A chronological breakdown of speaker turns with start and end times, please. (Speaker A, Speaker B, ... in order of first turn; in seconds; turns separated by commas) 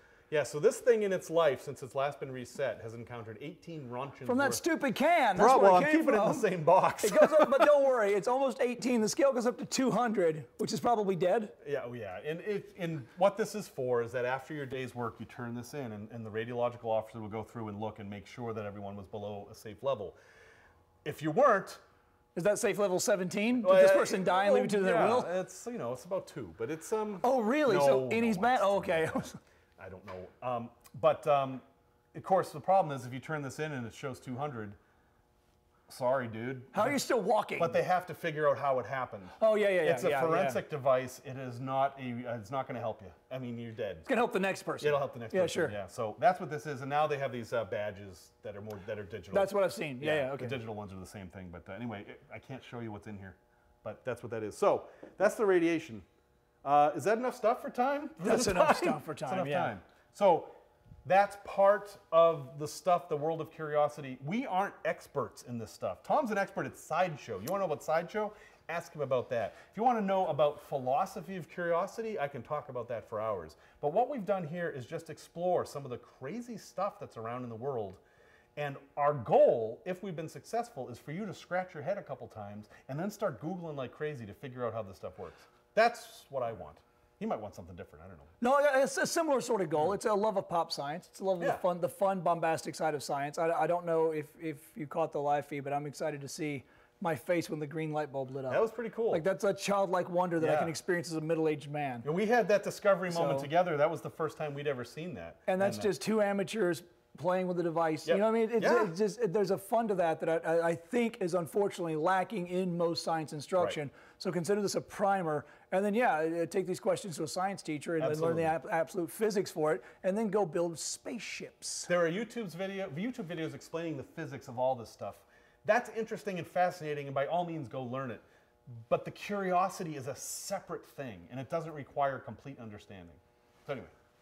Speaker A: 0.3-4.6, Speaker B: 4.2-6.5, Speaker A: 5.3-7.8, Speaker B: 7.0-11.5, Speaker A: 11.6-20.2, Speaker A: 21.0-21.8, Speaker B: 22.4-25.3, Speaker A: 23.6-34.8, Speaker B: 27.2-29.4, Speaker A: 35.9-37.0, Speaker B: 36.7-37.8, Speaker A: 37.6-44.1, Speaker B: 39.4-40.6, Speaker B: 44.1-45.8, Speaker A: 44.8-56.1, Speaker B: 49.3-50.6, Speaker A: 56.6-78.0, Speaker B: 58.2-59.7, Speaker A: 78.6-88.3, Speaker B: 88.4-102.1, Speaker A: 98.5-99.2, Speaker A: 100.4-100.8, Speaker A: 102.0-105.9, Speaker B: 103.1-103.5, Speaker B: 105.5-121.9, Speaker A: 108.0-108.9, Speaker A: 118.0-118.5, Speaker A: 121.9-133.9